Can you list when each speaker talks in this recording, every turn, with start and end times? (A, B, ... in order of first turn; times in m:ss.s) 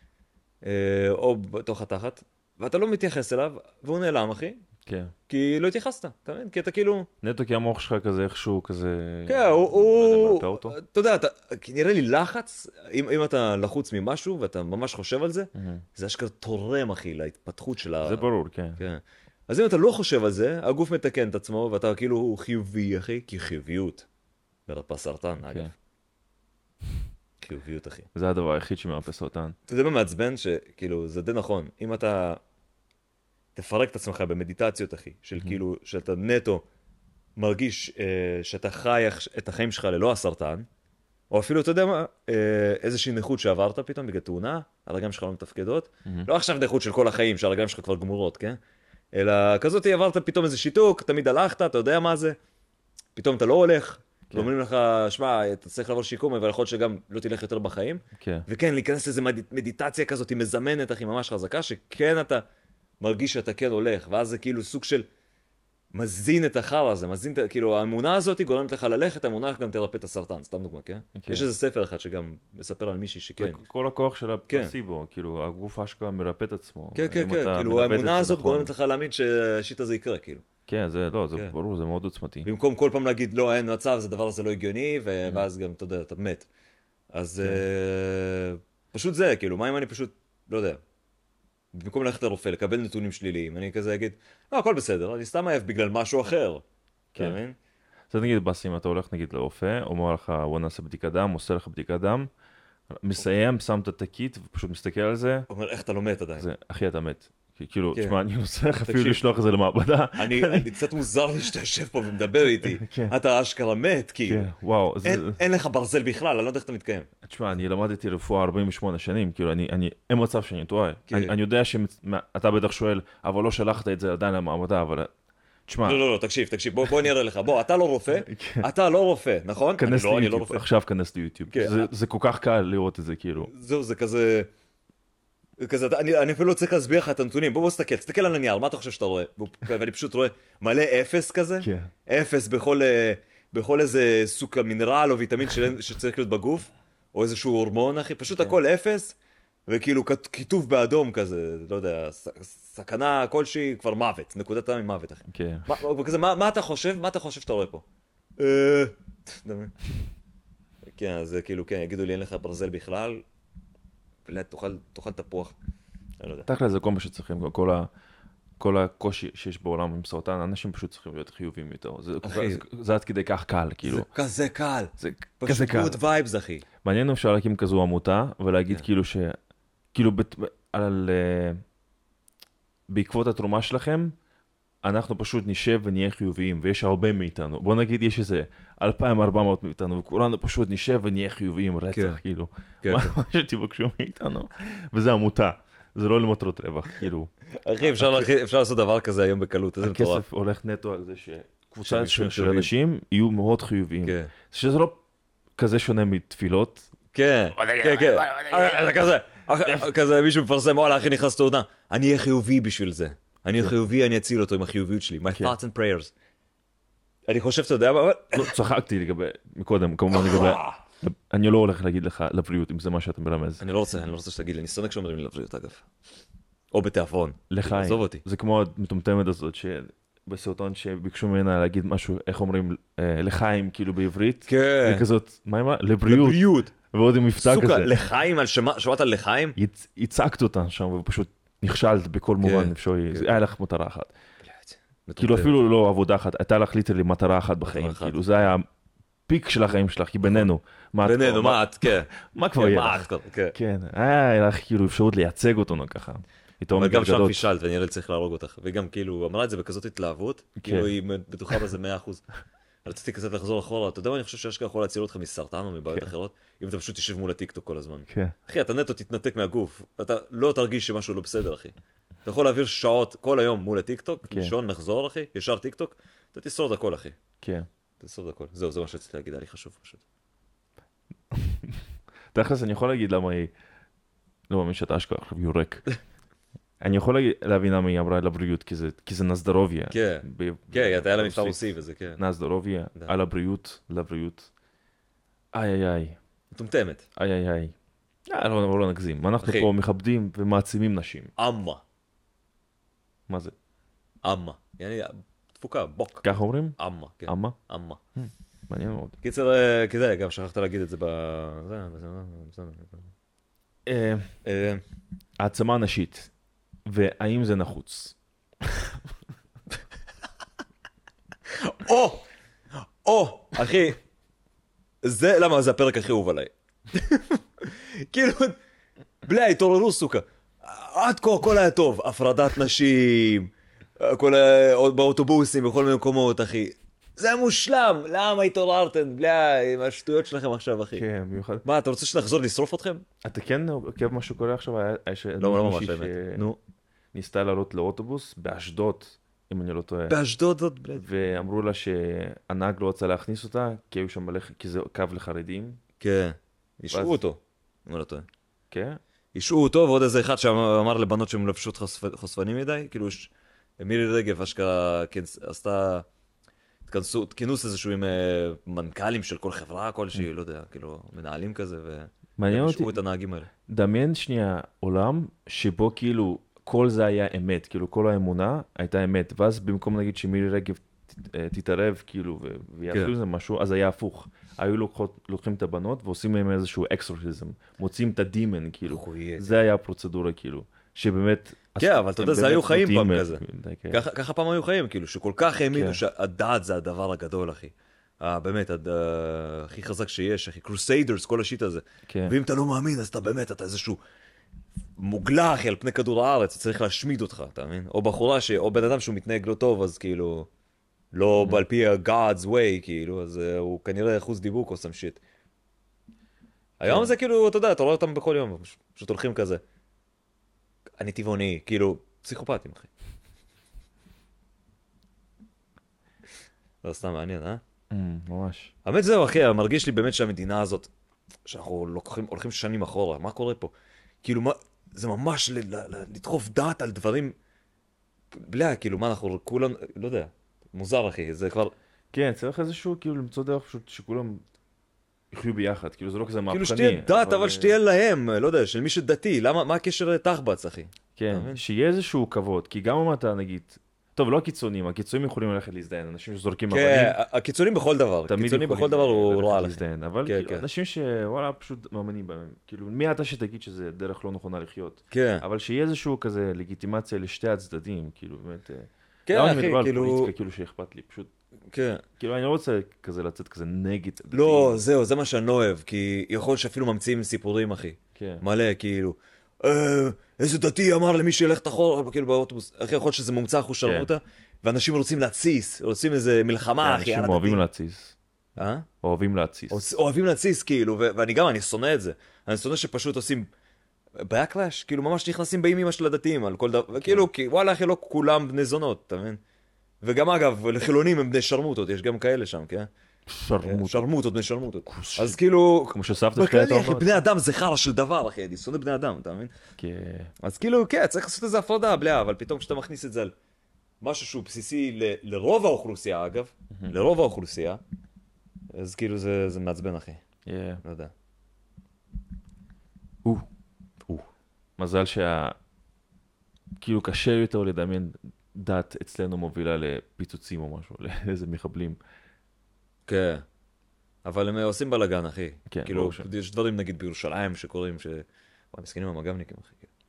0:00.6-0:04.6 A
0:04.8-0:05.1 B
0:05.3-0:07.1 A
0:07.2-0:10.8 B
0:09.3-0:24.0 A
0:15.6-0:15.8 B
0:18.0-0:18.8 B
0:24.7-0:25.7 A
0:27.4-0:28.1 A
0:28.1-0:29.5 B
0:29.7-0:32.4 A
0:33.6-0:36.6 A
0:37.4-0:40.7 A
0:41.3-0:48.6 A
0:49.1-0:52.4 A
0:53.2-1:02.4 A
0:58.2-0:58.4 B
1:03.0-1:05.1 A
1:05.9-1:13.6 A
1:11.2-1:11.5 B
1:13.4-1:18.7 B
1:14.5-1:14.7 A
1:16.9-1:20.4 A
1:20.7-1:22.5 B
1:22.4-1:26.5 A
1:27.1-1:30.8 A
1:31.7-1:36.6 A
1:37.1-1:37.6 A
1:38.1-1:42.3 B
1:42.9-1:45.5 B
1:45.5-1:46.5 A
1:46.4-1:50.8 B
1:48.8-1:49.2 A
1:50.2-1:54.5 A
1:52.5-1:53.1 B
1:54.2-1:55.4 B
1:55.0-1:57.1 A
1:57.2-2:05.1 B
2:01.1-2:01.3 A
2:05.7-2:06.0 B
2:05.8-2:10.6 A
2:08.2-2:08.7 B
2:09.8-2:13.5 B
2:11.5-2:11.9 A
2:13.4-2:14.5 A
2:15.6-2:29.2 A
2:21.6-2:21.9 B
2:28.3-2:28.6 B
2:29.7-2:37.8 A
2:35.3-2:35.8 B
2:38.4-2:39.7 A
2:40.9-2:43.2 A
2:44.3-2:45.6 A
2:46.2-2:46.5 A
2:46.4-2:47.9 B
2:48.6-2:54.1 B
2:52.2-2:52.6 A
2:53.8-2:56.6 A
2:55.0-2:56.0 B
2:56.8-2:59.4 B
2:59.9-3:01.6 B
3:02.9-3:04.1 B
3:04.8-3:17.3 B
3:11.9-3:12.2 A
3:12.8-3:13.1 A
3:17.6-3:20.2 A
3:17.8-3:18.3 B
3:19.8-3:25.0 B
3:21.8-3:22.7 A
3:24.0-3:24.3 A
3:25.6-3:26.9 B
3:27.1-3:36.1 A
3:37.3-3:38.5 A
3:38.3-3:43.6 B
3:40.2-3:40.8 A
3:43.6-3:45.8 A
3:46.7-3:48.2 A
3:47.5-3:57.9 B
3:54.5-3:55.0 A
3:56.0-3:56.7 A
3:57.4-3:59.6 A
3:59.6-4:04.1 B
4:02.4-4:03.4 A
4:04.4-4:05.6 A
4:05.2-4:08.6 B
4:07.6-4:08.3 A
4:09.3-4:17.5 B
4:10.2-4:10.5 A
4:11.0-4:13.6 A
4:16.7-4:22.2 A
4:20.6-4:20.9 B
4:22.8-4:37.2 A
4:28.1-4:28.3 B
4:34.3-4:34.5 B
4:37.4-4:37.7 B
4:38.0-4:40.0 A
4:41.3-4:41.8 B
4:42.3-4:43.5 B
4:44.5-4:45.9 B
4:46.8-4:51.6 B
4:49.9-4:52.2 A
4:52.2-4:54.5 B
4:55.5-4:56.2 B
4:56.5-4:57.0 A
4:57.2-4:57.7 B
4:58.3-5:01.3 B
4:59.4-4:59.7 A
5:01.4-5:01.8 A
5:03.3-5:03.5 B
5:04.2-5:08.0 A
5:06.2-5:07.6 B
5:08.2-5:09.2 B
5:09.2-5:13.1 A
5:13.8-5:14.3 B
5:14.4-5:14.8 A
5:15.4-5:16.3 B
5:16.8-5:18.2 B
5:21.5-5:22.2 A
5:23.0-5:24.0 A
5:25.0-5:28.6 A
5:29.2-5:41.0 A
5:40.9-5:41.6 B
5:41.6-5:43.0 A
5:43.2-5:46.5 B
5:45.4-5:46.6 A
5:47.1-5:50.2 B
5:50.1-5:51.1 A
5:51.0-5:55.8 B
5:56.0-5:58.3 A
5:56.9-5:57.2 B
5:58.7-5:59.0 B
5:59.3-6:06.0 A
6:06.9-6:13.5 A
6:12.4-6:13.0 B
6:13.7-6:34.0 B
6:28.8-6:29.6 A
6:31.8-6:44.0 A
6:35.7-6:36.0 B
6:42.1-6:42.3 B
6:45.0-6:50.5 A
6:51.1-6:55.2 A
6:56.8-6:59.6 A
6:56.8-6:57.1 B
7:01.0-7:02.9 A
7:06.8-7:07.6 A
7:07.9-7:08.7 B
7:08.8-7:10.9 A
7:11.5-7:17.4 A
7:18.3-7:21.7 A
7:22.1-7:24.4 B
7:25.3-7:27.8 B
7:26.5-7:31.6 A
7:31.2-7:37.2 B
7:36.7-7:40.7 A
7:38.3-7:51.3 B
7:45.1-7:45.4 A
7:49.3-7:50.3 A
7:51.7-7:52.0 A
7:52.2-7:54.8 B
7:54.3-8:07.6 A
7:58.2-7:58.4 B
8:03.8-8:04.1 B
8:06.8-8:08.2 B
8:08.6-8:08.9 A
8:09.0-8:09.8 B
8:09.7-8:13.5 A
8:14.2-8:19.4 A
8:17.0-8:17.3 B
8:20.0-8:22.9 A
8:23.3-8:24.0 B
8:23.6-8:29.5 A
8:24.9-8:25.4 B
8:25.9-8:27.2 B
8:29.8-8:30.3 B
8:30.4-8:33.3 A
8:34.0-8:37.8 A
8:38.7-8:40.2 A
8:40.4-8:40.8 B
8:40.8-8:41.1 A
8:44.8-8:45.6 B
8:46.8-8:52.0 B
8:53.1-8:53.4 A
8:54.2-8:59.9 A
8:55.7-8:56.3 B